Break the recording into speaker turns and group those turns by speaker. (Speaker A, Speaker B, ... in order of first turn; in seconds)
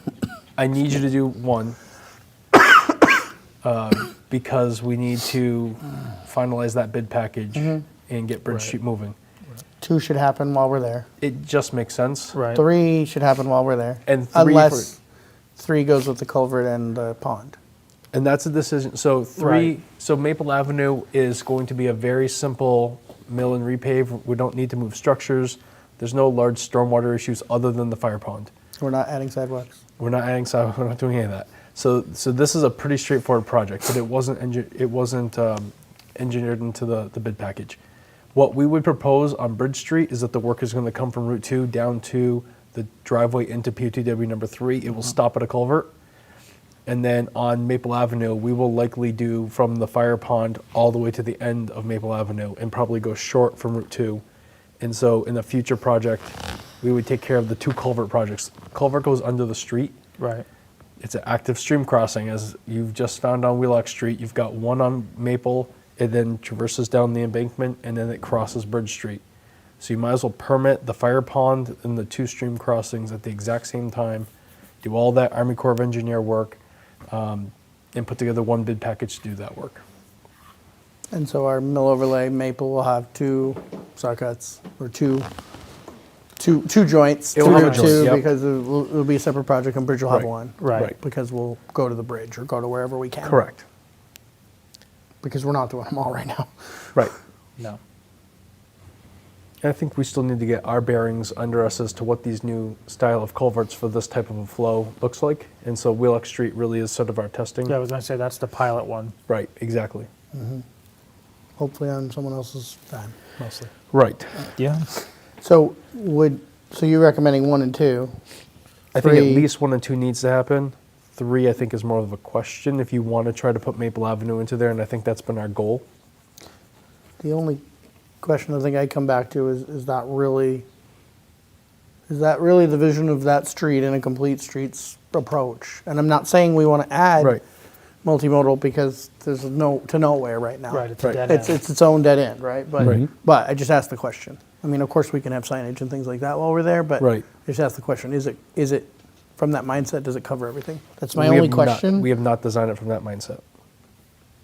Speaker A: 0.6-1.8, 3.6-9.2, 11.2-12.4, 14.1-14.9, 18.1-28.5, 30.0-37.8, 38.3-45.9, 46.9-54.2, 54.8-59.9, 61.0-69.2, 69.8-74.3, 74.8-76.6, 77.1-79.8, 87.3-88.2, 90.1-90.9, 93.2-93.6, 99.6-107.7, 109.3-110.1, 113.9-114.5, 118.9-125.8, 142.8-143.1, 147.0-147.2, 151.1-153.4
Speaker B: 7.5-7.8, 9.8-11.1, 12.5-15.0, 15.6-17.6, 28.8-29.8, 81.1-85.3, 86.4-93.4, 95.2-96.9, 110.3-110.6, 111.6-113.7, 115.4-118.2, 118.9-119.5, 127.2-127.6, 128.2-130.6, 132.1-137.4, 138.0-152.1
Speaker C: 12.3-12.6, 19.4-19.7, 60.2-60.4, 87.4-88.1, 90.6-90.9, 107.7-109.1, 114.6-114.9, 140.7-141.6